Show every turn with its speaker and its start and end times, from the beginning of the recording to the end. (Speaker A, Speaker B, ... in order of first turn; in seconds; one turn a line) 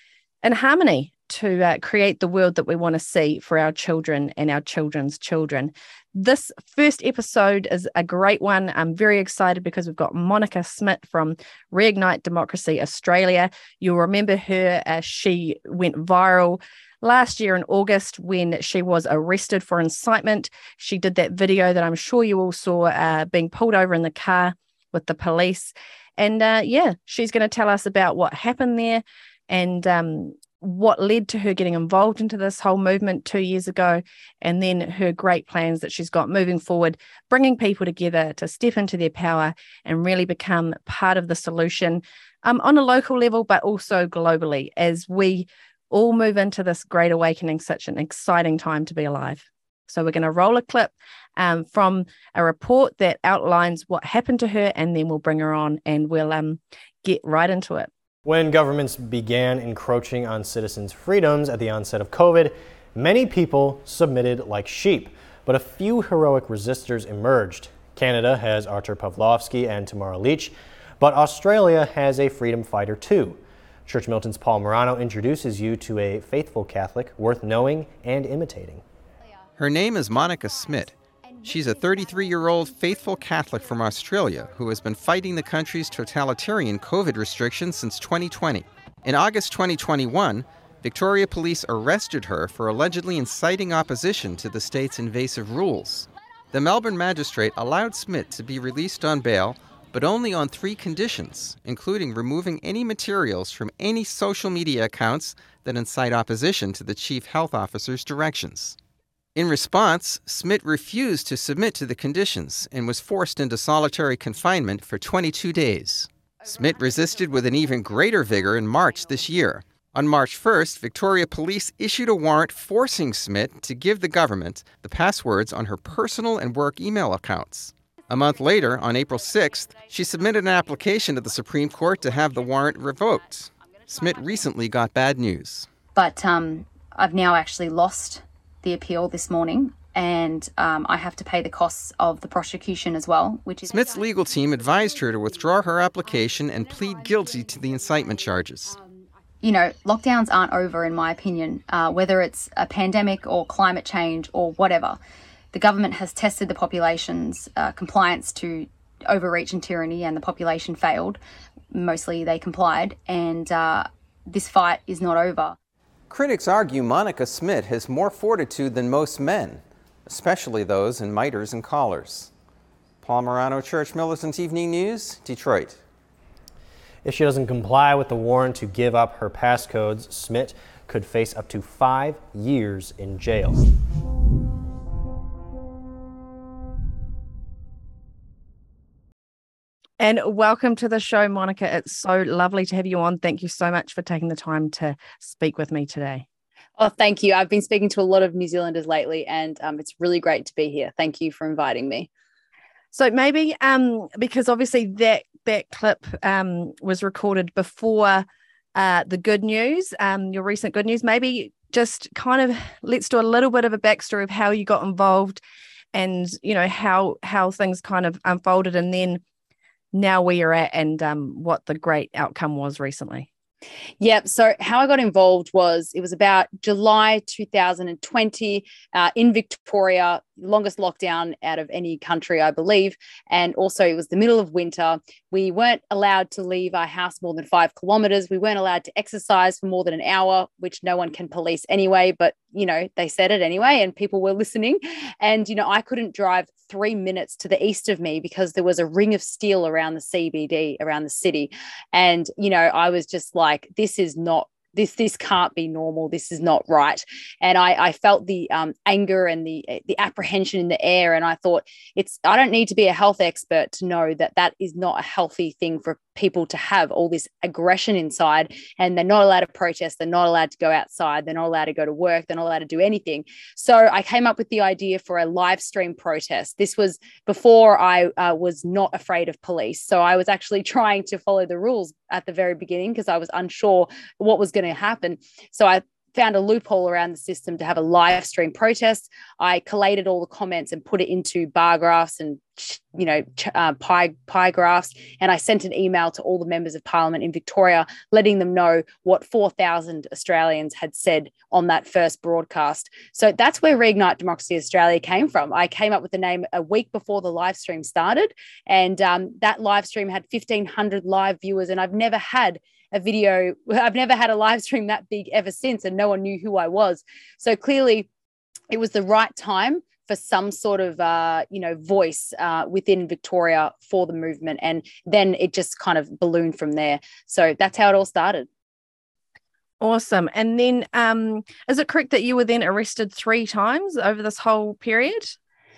Speaker A: 0.4-57.9
Speaker B: 58.2-78.8
Speaker C: 79.6-108.8
Speaker D: 80.2-83.7
Speaker C: 109.3-135.7
Speaker D: 129.1-131.4
Speaker D: 132.0-134.5
Speaker D: 136.0-148.3
Speaker C: 143.7-148.8
Speaker D: 150.1-153.3
Speaker D: 153.8-154.9
Speaker D: 157.0-158.6
Speaker D: 159.7-161.1
Speaker D: 163.1-163.4
Speaker D: 164.4-164.9
Speaker C: 166.1-172.3
Speaker C: 173.0-175.8
Speaker B: 177.0-183.6
Speaker A: 190.0-196.2
Speaker E: 196.8-202.1
Speaker A: 202.9-208.2
Speaker A: 208.8-215.4
Speaker A: 215.9-219.2
Speaker A: 219.9-223.3
Speaker E: 224.0-318.1
Speaker E: 318.7-328.5
Speaker A: 329.8-335.3